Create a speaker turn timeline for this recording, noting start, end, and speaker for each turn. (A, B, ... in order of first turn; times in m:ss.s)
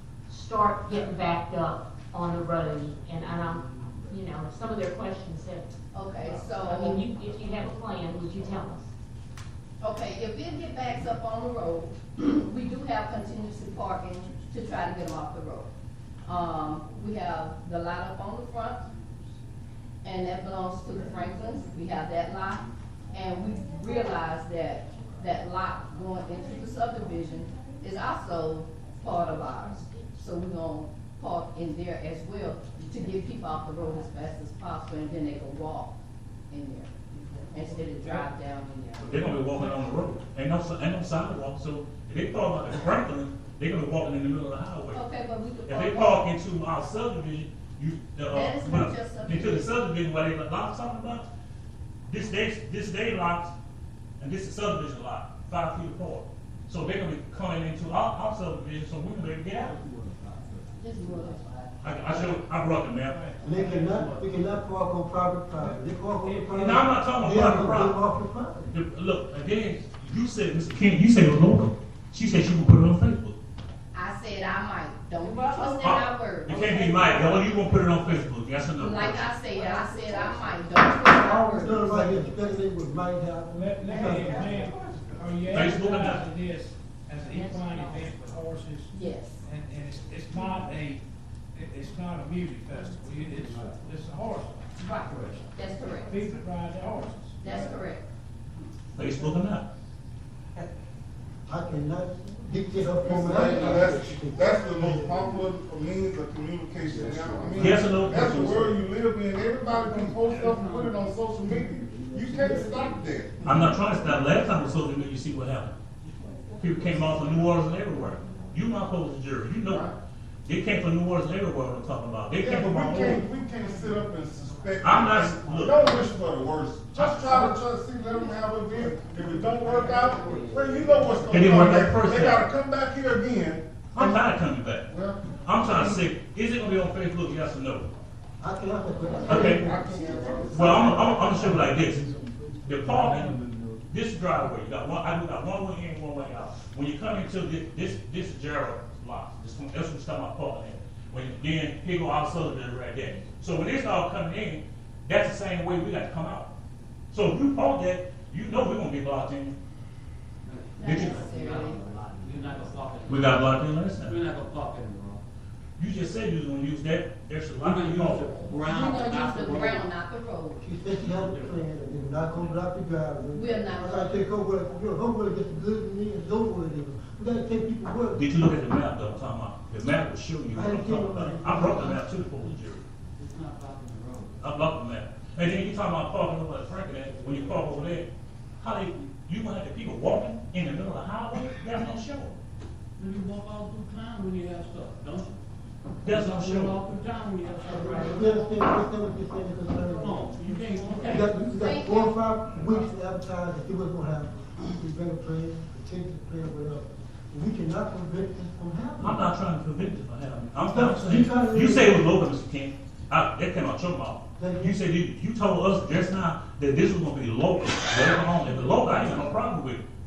0:00.3-0:05.7 A
0:05.9-0:07.0 B
0:06.6-0:08.9 A
0:09.8-0:15.7 B
0:16.2-0:18.9 B
0:20.0-0:36.0 B
0:36.5-0:36.9 B
0:37.4-0:38.2 A
0:37.5-0:39.1 B
0:39.0-0:45.0 C
0:44.9-0:46.2 B
0:45.7-0:51.3 C
0:48.3-0:49.7 B
0:52.1-0:53.5 C
0:54.2-0:59.8 C
1:00.0-1:01.4 D
1:00.8-1:01.4 B
1:01.8-1:03.2 C
1:03.0-1:04.2 E
1:03.4-1:08.7 F
1:05.6-1:06.6 E
1:06.5-1:08.0 C
1:08.7-1:13.4 C
1:13.9-1:16.7 B
1:15.3-1:15.8 D
1:15.8-1:19.3 C
1:16.6-1:17.4 D
1:18.8-1:22.2 B
1:19.6-1:20.4 D
1:21.1-1:24.6 F
1:23.5-1:37.8 E
1:24.2-1:25.1 D
1:25.5-1:26.2 C
1:27.3-1:28.1 A
1:28.9-1:29.4 B
1:34.8-1:36.2 B
1:37.4-1:38.0 B
1:39.0-1:39.7 C
1:41.5-1:45.2 F
1:43.0-1:53.5 G
1:44.8-1:45.4 D
1:46.8-1:48.8 D
1:47.6-1:48.5 C
1:49.8-1:51.0 D
1:51.6-1:54.5 D
1:53.4-1:55.8 C
1:56.6-1:57.5 D
1:56.6-1:59.9 C
1:59.7-1:59.9 G
2:00.5-2:03.3 C
2:02.4-2:14.3 G
2:04.8-2:06.0 C
2:07.0-2:07.6 C
2:08.8-2:11.3 D
2:09.7-2:11.2 A
2:11.3-2:12.5 C
2:13.9-2:17.9 C
2:14.9-2:16.0 G
2:18.4-2:21.4 F
2:19.3-2:19.6 C
2:19.3-2:21.4 G
2:20.3-2:23.8 D
2:20.5-2:22.1 C
2:22.6-2:23.4 C
2:23.9-2:36.5 C
2:37.1-2:39.6 C
2:40.5-2:45.2 D
2:40.8-2:41.8 B
2:40.8-2:41.3 C
2:41.0-2:41.9 A
2:42.4-2:43.5 A
2:43.1-2:44.2 C
2:45.8-2:48.3 C
2:47.7-2:49.5 D
2:48.6-2:50.6 B
2:48.8-2:49.8 A
2:50.6-2:58.3 F
2:51.0-2:51.3 D
2:51.3-2:51.6 A
2:53.3-2:54.2 B
2:58.2-3:02.8 C
3:00.5-3:02.1 F
3:03.2-3:04.4 D
3:04.4-3:08.1 C
3:08.6-3:12.4 C
3:13.0-3:15.4 D
3:16.0-3:16.8 C
3:16.0-3:18.6 D
3:17.6-3:20.4 F
3:19.9-3:21.4 D
3:21.0-3:29.3 F
3:21.4-3:22.1 B
3:29.0-3:39.8 C
3:30.7-3:32.1 F
3:34.4-3:34.8 F